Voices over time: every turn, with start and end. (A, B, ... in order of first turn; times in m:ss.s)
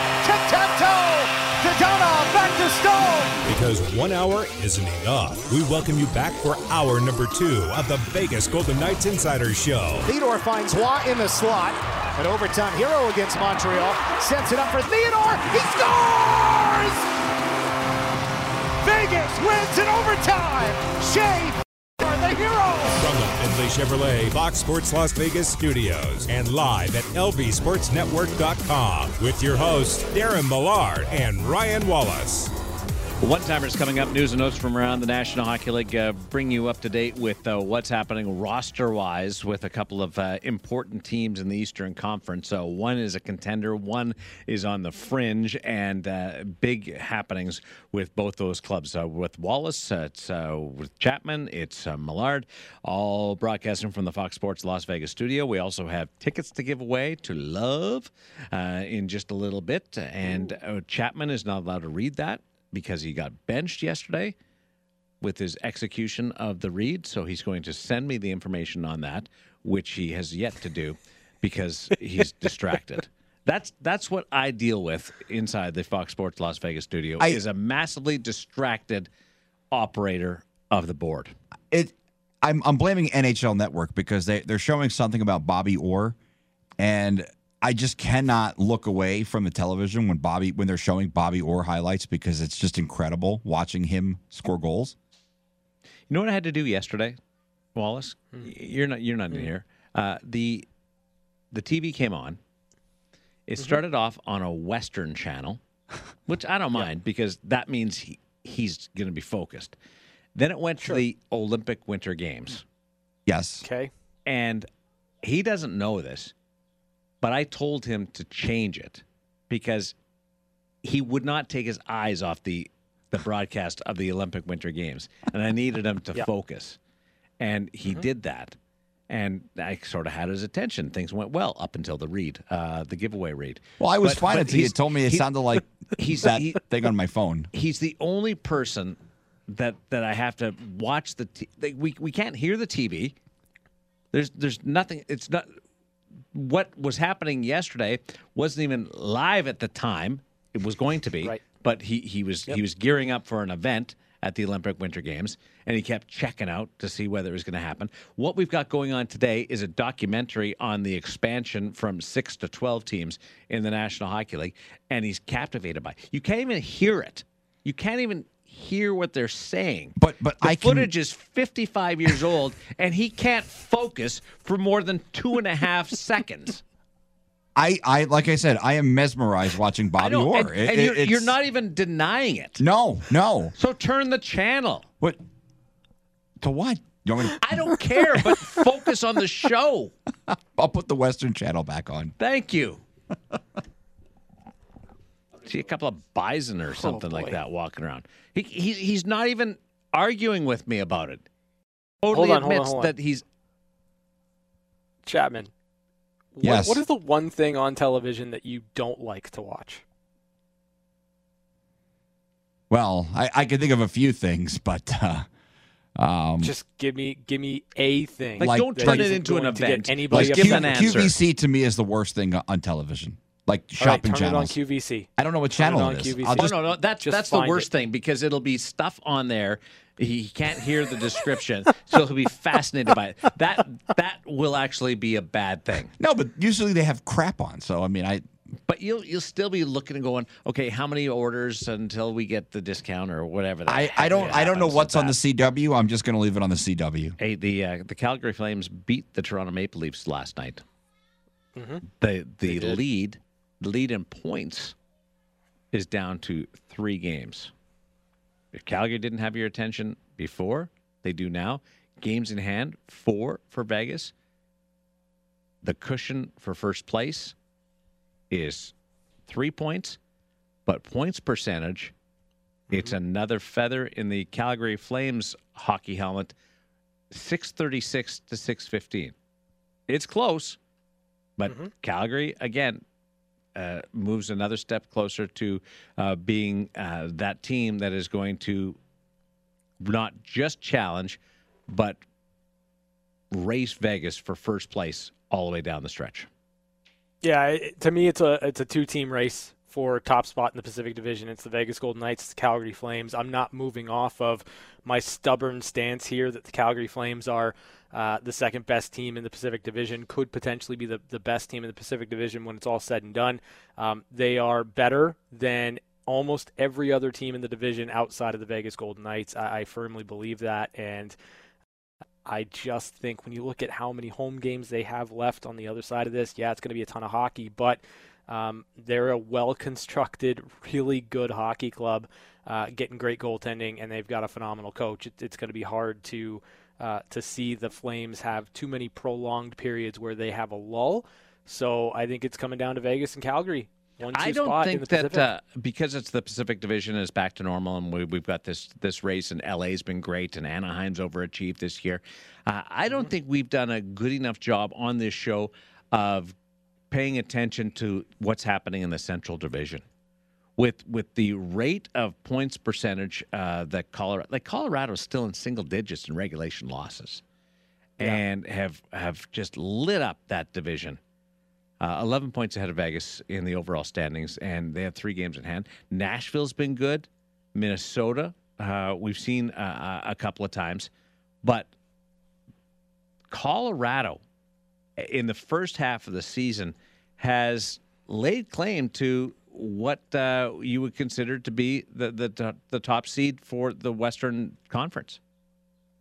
0:00.2-0:03.4 A
0:03.5-0:10.1 B
0:10.0-0:17.0 A
0:18.8-0:23.0 A
0:23.0-0:32.5 B
0:33.2-1:04.4 C
1:05.2-1:19.1 C
1:19.7-1:21.3 C
1:21.7-1:26.2 D
1:26.8-1:35.0 D
1:36.1-1:37.2 C
1:37.8-1:40.7 C
1:41.5-1:42.4 C
1:43.5-1:45.6 C
1:46.3-1:49.8 C
1:50.4-1:52.6 C
1:53.3-1:53.6 D
1:53.6-1:53.9 E
1:54.3-1:54.7 C
1:55.2-1:56.3 C
1:57.2-2:00.0 C
2:00.8-2:06.8 C
2:07.4-2:08.6 C
2:09.1-2:15.3 C
2:13.8-2:17.5 D
2:16.0-2:16.6 C
2:17.5-2:19.0 C
2:19.5-2:23.2 C
2:24.1-2:25.5 C
2:26.3-2:56.6 C
2:50.0-2:50.9 D
2:57.6-3:01.3 D
3:00.0-3:02.6 C
3:02.6-3:03.6 D
3:03.6-3:04.8 C
3:06.4-3:07.8 D
3:07.4-3:09.9 C
3:10.3-3:12.1 D
3:12.2-3:12.8 C
3:15.4-3:21.2 C
3:16.8-3:17.4 E
3:22.0-3:23.2 C
3:22.1-3:22.9 E
3:25.0-3:25.5 E
3:26.4-3:29.8 E
3:26.4-3:26.8 D
3:32.7-3:35.3 D
3:36.0-3:36.6 D
3:36.4-3:41.1 E
3:38.4-3:41.2 C
3:38.4-3:39.1 D
3:40.1-3:44.6 D
3:43.8-3:47.7 E
3:45.2-3:46.5 D
3:46.4-3:55.9 C
3:56.0-3:58.2 D
3:58.7-4:05.2 C
4:03.7-4:07.2 D
4:07.2-4:10.6 C
4:11.6-4:11.8 E
4:12.0-4:14.8 C
4:12.4-4:12.8 E
4:15.7-4:17.5 C
4:18.5-4:24.1 C
4:25.6-4:27.3 C
4:28.3-4:28.7 C
4:29.3-4:30.0 C
4:30.7-4:31.9 C
4:32.7-4:36.3 C
4:37.1-4:39.1 C
4:39.9-4:40.6 C
4:41.4-4:42.8 C
4:41.4-4:41.7 E
4:43.6-4:48.8 C
4:49.8-4:52.0 C
4:53.3-4:56.3 C
4:57.2-5:21.2 E
5:22.3-5:45.3 E
5:44.1-5:56.4 C
5:56.9-5:59.8 C
6:00.6-6:07.2 C
6:08.0-6:11.0 C
6:11.8-6:20.9 C
6:21.4-6:21.7 C
6:23.3-6:24.2 C
6:25.0-6:35.2 C